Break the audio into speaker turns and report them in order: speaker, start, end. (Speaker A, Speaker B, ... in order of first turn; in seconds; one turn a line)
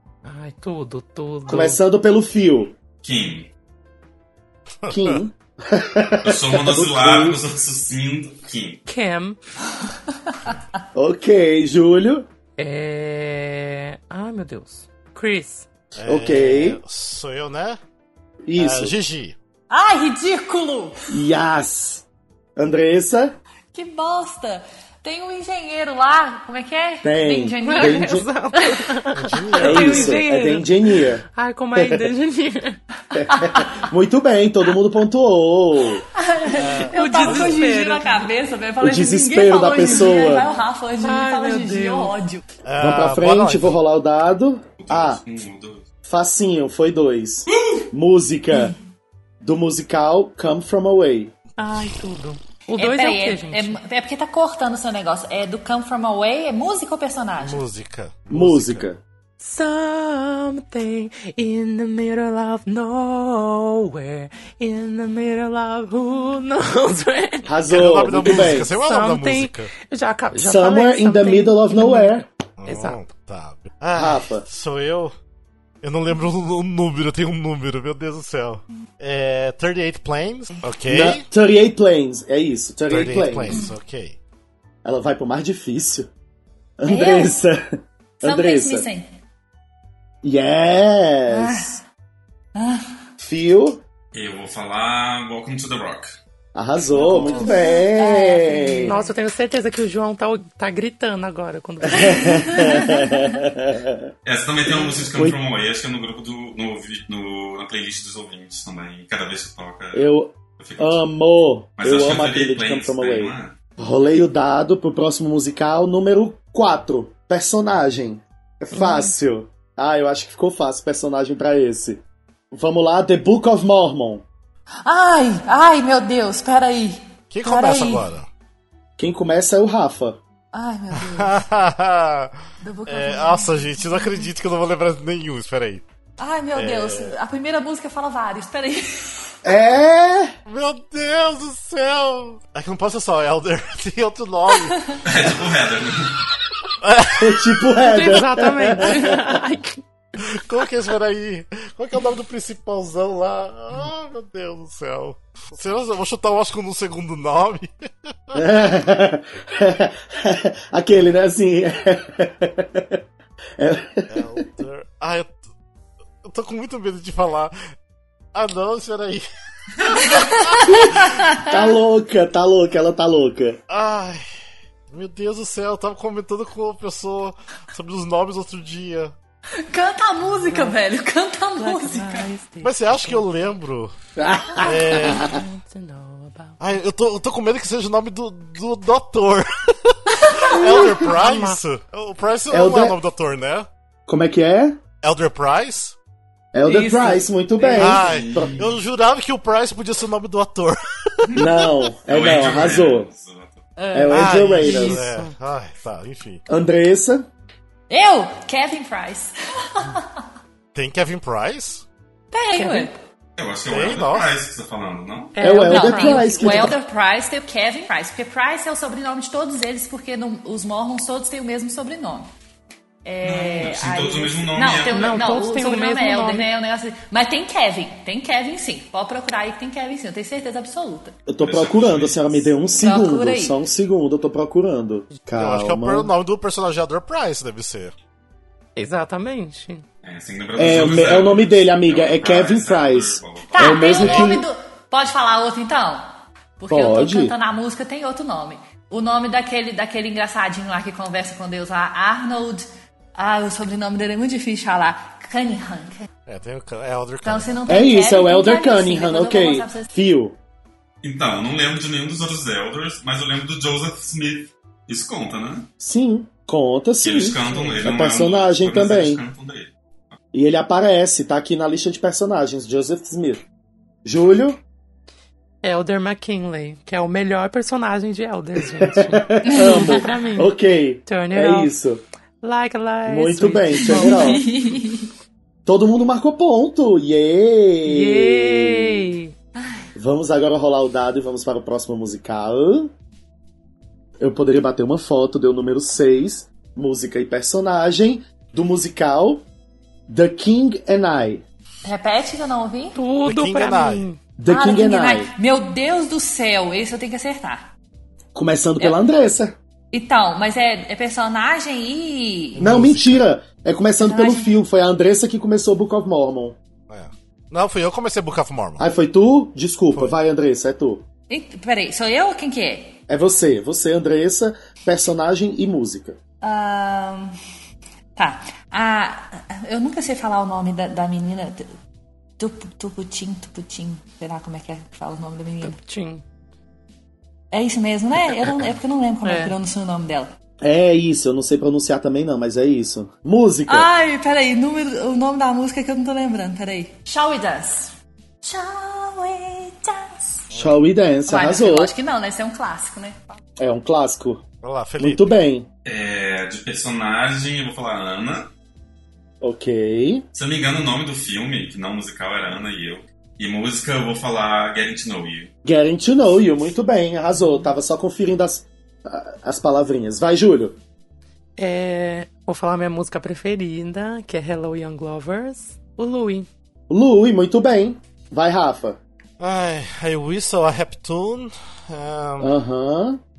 Speaker A: 0.2-1.8
Speaker B: 1.5-2.7
Speaker C: 3.0-3.5
Speaker D: 4.8-5.2
Speaker B: 4.9-7.4
Speaker C: 6.2-8.8
Speaker A: 8.9-9.4
Speaker B: 10.9-12.2
Speaker A: 12.6-15.7
Speaker D: 15.9-17.8
Speaker B: 16.0-16.8
Speaker B: 18.4-18.9
Speaker D: 18.6-19.4
Speaker E: 19.7-21.1
Speaker B: 21.1-23.4
Speaker E: 23.7-28.8
Speaker B: 27.0-28.3
Speaker A: 27.6-32.8
Speaker D: 29.1-30.2
Speaker B: 29.6-31.2
Speaker B: 31.7-32.1
Speaker B: 33.1-36.0
Speaker E: 33.3-33.8
Speaker E: 36.1-42.4
Speaker D: 36.5-37.6
Speaker A: 36.9-38.3
Speaker B: 38.8-40.5
Speaker A: 41.0-42.1
Speaker D: 42.6-43.8
Speaker B: 42.8-45.2
Speaker C: 44.8-45.8
Speaker B: 46.0-48.7
Speaker C: 47.5-47.9
Speaker B: 49.4-51.3
Speaker A: 51.6-53.8
Speaker E: 52.7-57.6
Speaker D: 57.4-58.9
Speaker B: 58.3-59.0
Speaker A: 59.4-67.5
Speaker B: 67.4-68.7
Speaker D: 67.7-69.7
Speaker A: 68.2-73.0
Speaker B: 70.3-72.2
Speaker D: 72.6-75.2
Speaker B: 73.9-74.5
Speaker D: 75.8-81.2
Speaker B: 80.9-83.7
Speaker D: 82.9-84.2
Speaker B: 84.8-86.1
Speaker B: 86.8-88.8
Speaker E: 86.8-87.3
Speaker E: 88.2-89.1
Speaker B: 90.2-91.8
Speaker E: 91.3-91.8
Speaker E: 92.5-92.9
Speaker B: 93.2-93.8
Speaker C: 94.1-96.1
Speaker B: 96.5-98.9
Speaker E: 96.9-99.1
Speaker A: 98.8-102.7
Speaker B: 101.9-104.1
Speaker E: 102.0-103.2
Speaker C: 104.2-110.1
Speaker B: 104.7-105.4
Speaker B: 109.9-122.0
Speaker C: 110.6-111.0
Speaker C: 111.8-113.7
Speaker B: 122.5-124.2
Speaker E: 124.8-128.1
Speaker D: 127.3-128.3
Speaker B: 129.0-130.2
Speaker E: 130.5-131.4
Speaker D: 131.0-132.3
Speaker E: 132.6-134.3
Speaker D: 132.9-135.8
Speaker E: 136.2-139.3
Speaker D: 136.5-137.1
Speaker B: 139.4-140.3
Speaker D: 140.4-144.9
Speaker C: 145.0-146.2
Speaker D: 146.8-148.2
Speaker B: 147.2-149.2
Speaker A: 147.8-149.8
Speaker D: 150.2-158.4
Speaker B: 158.3-163.0
Speaker B: 163.6-164.4
Speaker D: 164.1-165.4
Speaker D: 166.2-167.6
Speaker D: 168.3-171.1
Speaker E: 169.9-171.7
Speaker B: 171.4-173.6
Speaker D: 173.7-174.3
Speaker D: 174.9-179.1
Speaker E: 179.7-182.3
Speaker A: 180.3-180.8
Speaker A: 181.6-183.4
Speaker D: 182.6-183.9
Speaker B: 184.2-185.3
Speaker D: 184.6-185.3
Speaker A: 184.8-186.6
Speaker D: 186.6-193.7
Speaker E: 190.2-190.5
Speaker A: 190.5-191.6
Speaker B: 192.5-193.0
Speaker B: 194.1-194.8
Speaker D: 195.0-195.9
Speaker B: 196.5-198.6
Speaker A: 196.7-197.9
Speaker D: 197.7-201.7
Speaker C: 197.9-198.7
Speaker B: 201.3-203.1
Speaker C: 202.1-203.7
Speaker E: 203.8-204.1
Speaker B: 203.9-205.0
Speaker A: 204.1-205.3
Speaker D: 204.1-206.4
Speaker B: 206.5-207.3
Speaker E: 207.9-210.2
Speaker D: 210.7-211.8
Speaker E: 212.3-212.9
Speaker A: 212.6-212.9
Speaker C: 213.4-215.3
Speaker D: 213.7-214.3
Speaker A: 215.3-216.7
Speaker B: 215.4-216.8
Speaker E: 215.6-222.3
Speaker E: 223.0-231.2
Speaker C: 223.2-225.3
Speaker A: 224.8-226.5
Speaker B: 231.3-236.1
Speaker C: 231.4-232.8
Speaker E: 232.8-233.6
Speaker D: 235.4-237.9
Speaker A: 238.8-239.8
Speaker C: 240.0-243.8
Speaker B: 240.6-244.4
Speaker E: 243.5-256.1
Speaker B: 246.7-247.3
Speaker D: 256.2-257.6
Speaker E: 257.2-259.9
Speaker B: 257.7-260.4
Speaker C: 261.0-265.7
Speaker B: 265.8-269.2
Speaker C: 267.0-269.7
Speaker B: 270.3-273.4
Speaker B: 274.0-274.6
Speaker A: 275.6-280.5
Speaker B: 278.8-282.0
Speaker E: 279.5-280.1
Speaker A: 281.1-281.7
Speaker A: 282.4-284.4
Speaker B: 283.0-284.4
Speaker E: 283.8-285.1
Speaker B: 285.6-289.0
Speaker A: 287.8-289.3
Speaker E: 289.5-289.9
Speaker B: 289.9-292.9
Speaker B: 294.2-299.4
Speaker B: 300.1-301.4
Speaker E: 301.8-303.0
Speaker A: 302.9-304.2
Speaker D: 303.2-304.1
Speaker B: 304.4-305.3
Speaker E: 304.5-307.7
Speaker B: 308.3-309.5
Speaker E: 309.9-312.6
Speaker D: 312.5-313.2
Speaker B: 312.6-316.6
Speaker E: 314.0-314.6
Speaker D: 316.9-318.8
Speaker B: 318.8-321.0
Speaker E: 321.3-323.0
Speaker B: 323.1-326.2
Speaker E: 326.4-327.3
Speaker E: 328.1-331.7
Speaker E: 332.4-335.8
Speaker A: 335.6-336.2
Speaker E: 337.5-340.3
Speaker A: 339.2-339.5
Speaker B: 340.6-343.9
Speaker E: 343.7-350.5
Speaker D: 350.5-350.8
Speaker B: 350.5-351.9
Speaker E: 351.2-353.4
Speaker B: 353.6-354.4
Speaker D: 354.6-355.3
Speaker B: 355.0-355.7
Speaker C: 355.8-358.5
Speaker B: 359.4-360.2
Speaker C: 360.3-365.5
Speaker B: 365.6-370.8
Speaker A: 371.6-376.5
Speaker B: 376.9-379.0
Speaker D: 379.4-382.5
Speaker B: 382.4-383.2